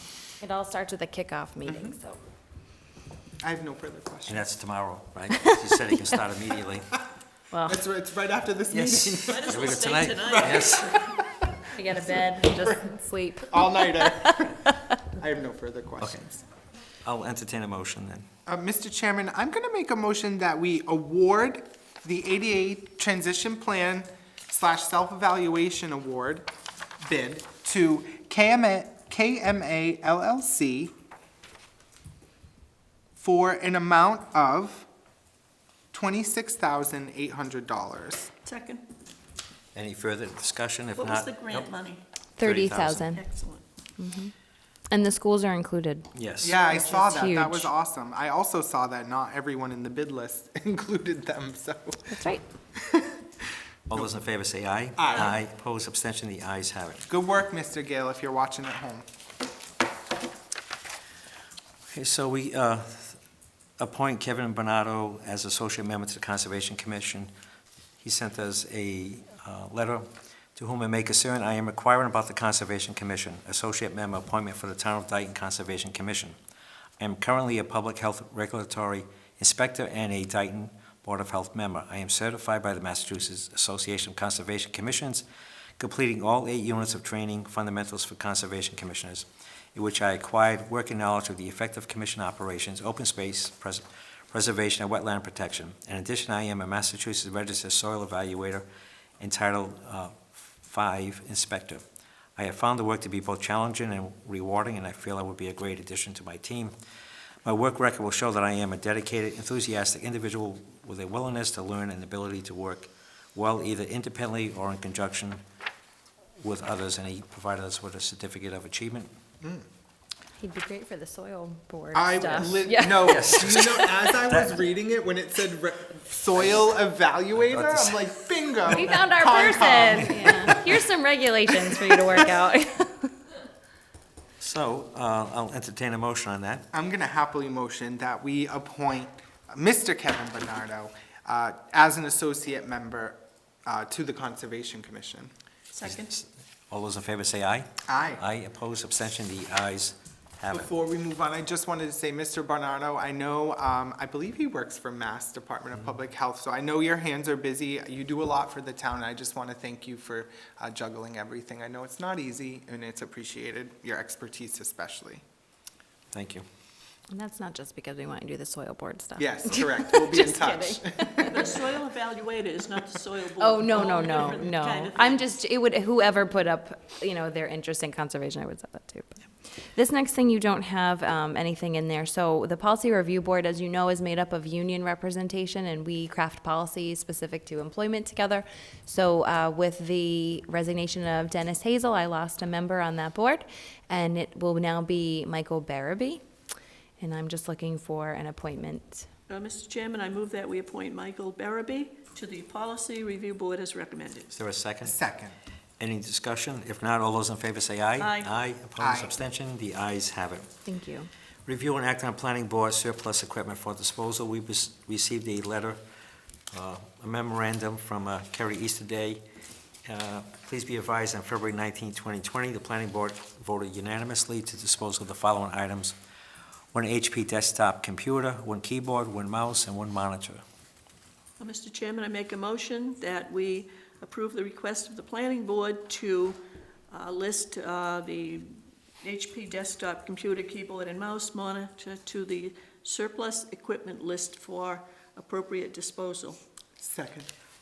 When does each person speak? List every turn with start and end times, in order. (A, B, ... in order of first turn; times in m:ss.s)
0:00.4-0:02.2 A
0:01.7-0:02.0 B
0:03.4-0:04.4 B
0:04.3-0:07.0 C
0:07.5-0:07.8 A
0:07.6-0:09.6 B
0:08.7-0:11.0 C
0:09.3-0:10.9 D
0:10.2-0:16.4 B
0:11.7-0:14.6 A
0:17.0-0:18.2 C
0:18.5-0:26.5 B
0:27.0-0:30.9 B
0:33.2-0:34.9 B
0:35.9-0:38.3 B
0:38.4-0:38.8 D
0:39.7-0:41.7 C
0:41.0-0:42.0 D
0:42.4-0:43.2 A
0:42.4-0:43.1 C
0:43.1-0:43.6 D
0:44.0-0:44.3 A
0:44.9-0:47.7 A
0:46.1-0:46.6 C
0:46.4-0:54.1 B
0:52.1-0:52.4 A
0:53.9-0:57.0 C
0:55.0-0:55.3 B
0:57.1-0:59.0 B
1:01.9-1:03.2 C
1:03.8-1:07.3 C
1:08.0-1:16.3 C
1:17.0-1:25.2 C
1:25.8-1:38.6 C
1:39.2-1:41.8 C
1:42.4-1:46.7 C
1:47.4-1:55.4 C
1:56.4-1:59.1 C
2:00.4-2:03.2 A
2:01.9-2:10.5 B
2:03.0-2:04.6 C
2:07.4-2:08.0 C
2:08.7-2:13.1 A
2:10.0-2:10.6 C
2:11.7-2:12.2 B
2:14.4-2:16.6 C
2:16.7-2:25.3 B
2:25.7-2:26.1 D
2:25.8-2:30.7 C
2:27.9-2:28.2 B
2:30.5-2:45.2 B
2:46.1-2:46.4 C
2:47.1-2:51.5 A
2:49.2-2:51.5 B
2:51.2-2:55.2 D
2:53.4-3:16.2 A
3:17.0-3:19.1 A
3:19.3-3:24.3 D
3:24.3-3:25.0 C
3:24.8-3:25.4 B
3:25.8-3:30.5 C
3:28.0-3:28.4 D
3:28.8-3:29.1 B
3:30.6-3:31.1 A
3:31.4-3:35.8 C
3:36.5-3:39.2 C
3:39.8-3:45.9 C
3:46.7-3:50.4 C
3:51.4-3:56.4 D
3:56.9-4:06.4 D
4:06.8-4:07.3 B